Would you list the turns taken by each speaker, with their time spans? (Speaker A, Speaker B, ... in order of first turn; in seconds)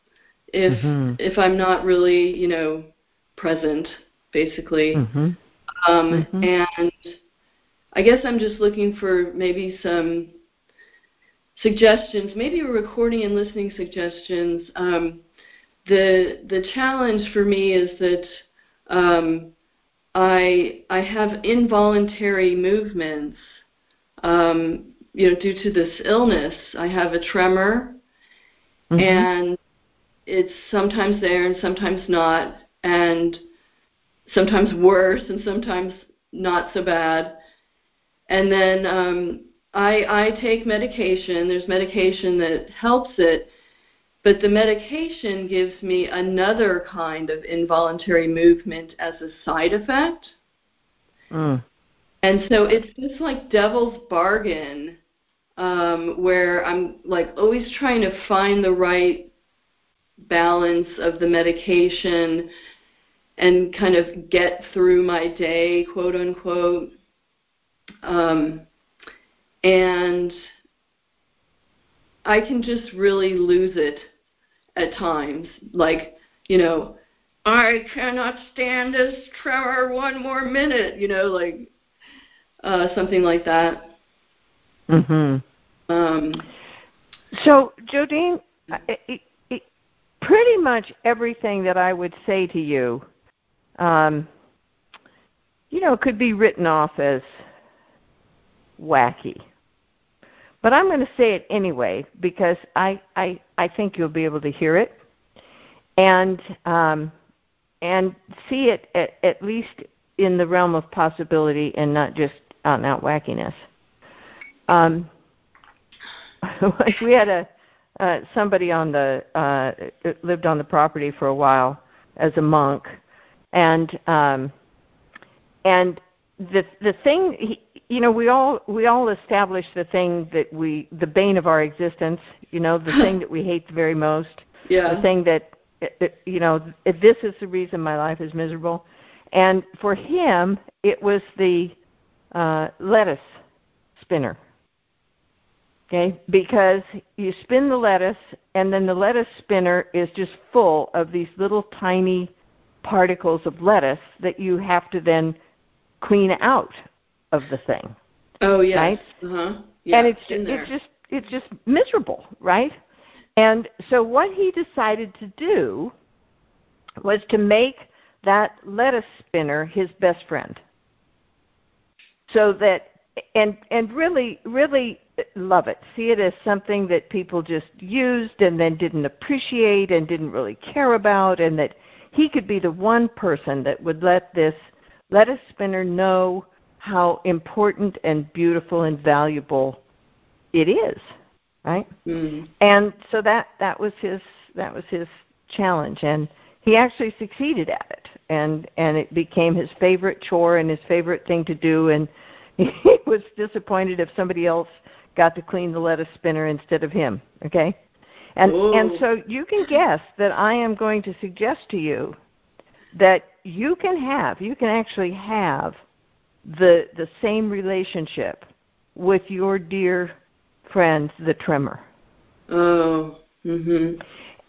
Speaker A: 0.5-5.0, 5.8-7.2, 7.9-10.3, 11.6-15.2, 15.8-19.5, 20.1-23.4, 24.2-28.0, 29.0-29.6, 30.3-33.4, 34.3-37.4, 38.3-43.5, 44.2-50.3, 52.2-55.0, 55.6-59.3, 60.2-62.5, 63.4-66.9, 68.0-68.7, 69.6-70.4, 72.2-74.1, 74.8-81.7, 82.6-83.9, 85.9-86.5, 134.7-135.1, 158.4-160.7, 192.1-192.5, 208.4-209.0, 222.5-224.0
Speaker B: 0.7-1.2, 4.9-5.4, 6.1-6.5, 28.9-29.3, 51.3-51.6, 84.9-85.4, 87.3-89.6, 90.2-93.0, 93.8-94.3, 95.7-97.4, 98.8-99.4, 100.6-105.0, 106.0-107.1, 107.8-113.7, 114.7-115.1, 116.4-123.0, 123.5-124.5, 125.7-141.8, 142.3-143.4, 144.0-144.4, 145.9-152.3, 152.8-155.4, 156.0-157.9, 158.7-159.0, 159.9-162.8, 163.4-165.9, 167.0-170.6, 172.3-189.8, 190.5-191.1, 192.6-207.8, 208.4-212.2, 212.9-215.8, 216.4-220.2, 220.7-221.8